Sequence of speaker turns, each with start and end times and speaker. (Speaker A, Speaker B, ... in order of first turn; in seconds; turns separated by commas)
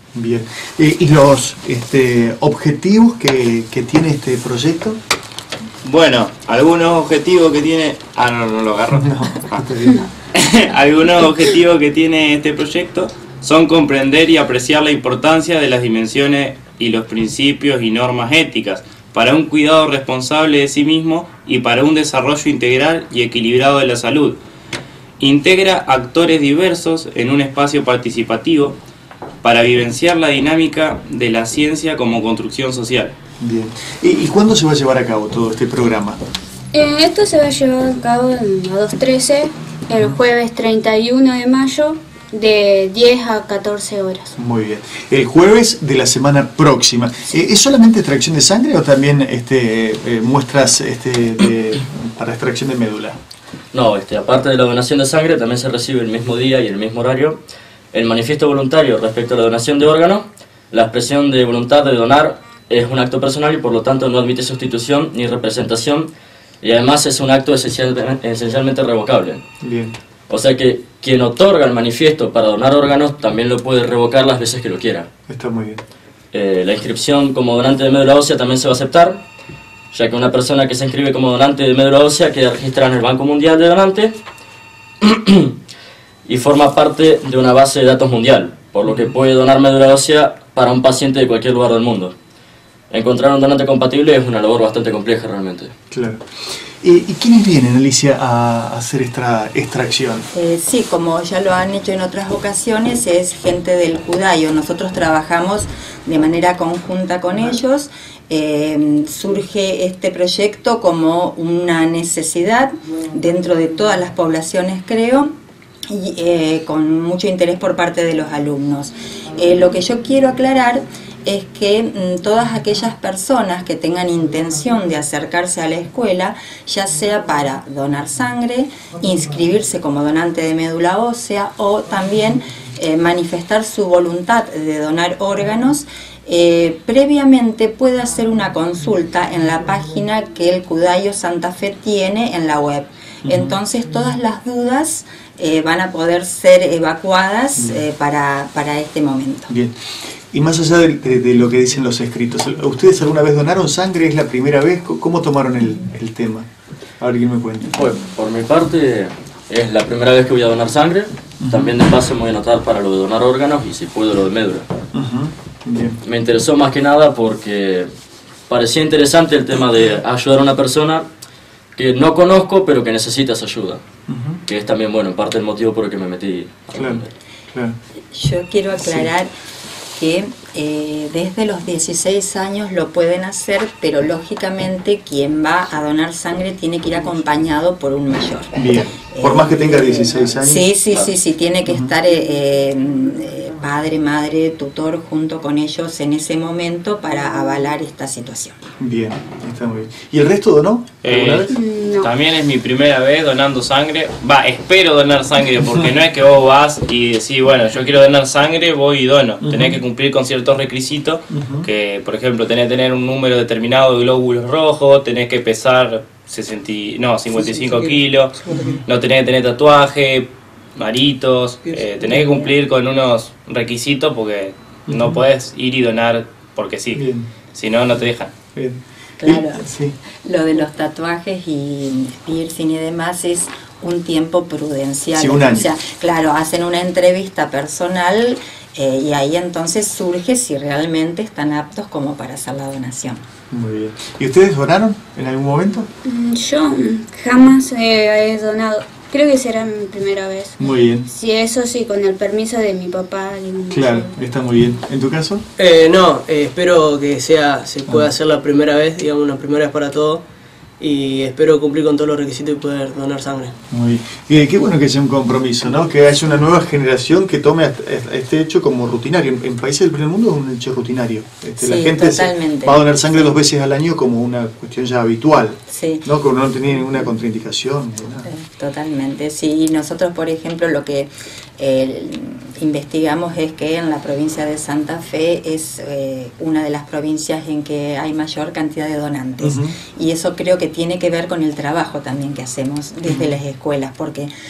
Speaker A: 0.1-5.0, Speaker B: 5.8-9.7, Speaker A: 8.9-10.1, Speaker B: 10.3-24.4, Speaker B: 25.2-28.8, Speaker B: 29.4-33.1, Speaker A: 33.4-36.2, Speaker C: 36.7-44.3, Speaker A: 44.4-53.2, Speaker D: 53.7-57.4, Speaker D: 57.9-66.1, Speaker D: 66.6-69.4, Speaker A: 69.6-69.9, Speaker D: 70.3-75.1, Speaker A: 75.3-75.8, Speaker D: 76.3-79.2, Speaker D: 79.9-84.1, Speaker D: 85.0-85.5, Speaker D: 86.3-92.1, Speaker D: 92.9-95.7, Speaker A: 95.9-96.3, Speaker A: 96.8-100.3, Speaker E: 100.3-115.3, Speaker E: 115.9-149.5, Speaker A: 143.2-143.5, Speaker A: 149.5-149.7, Speaker A: 150.3-156.5, Speaker A: 157.0-157.8, Speaker D: 157.8-164.6, Speaker A: 161.4-161.8, Speaker A: 164.9-166.0, Speaker D: 166.1-167.8, Speaker D: 168.5-171.0, Speaker D: 171.8-173.8, Speaker A: 174.1-174.4, Speaker D: 174.5-176.6, Speaker A: 176.7-177.0, Speaker E: 178.1-179.3, Speaker A: 178.8-179.1, Speaker E: 179.9-198.6, Speaker A: 188.6-190.7, Speaker A: 191.7-191.9, Speaker A: 198.8-201.5, Speaker B: 201.0-228.3, Speaker C: 201.5-202.1, Speaker A: 209.4-209.8, Speaker A: 211.3-211.7, Speaker A: 218.5-218.8, Speaker A: 224.9-225.2, Speaker A: 226.9-227.3, Speaker A: 228.6-230.0, Speaker E: 229.2-243.2, Speaker A: 235.2-235.7, Speaker A: 243.5-245.9, Speaker C: 246.1-250.6, Speaker A: 250.6-251.1, Speaker C: 251.1-254.1, Speaker A: 253.7-255.4, Speaker F: 255.6-260.2, Speaker F: 260.8-263.6, Speaker A: 263.7-278.3, Speaker E: 271.6-273.3, Speaker E: 275.7-276.1, Speaker E: 278.3-294.3, Speaker A: 289.4-289.8, Speaker A: 293.1-293.4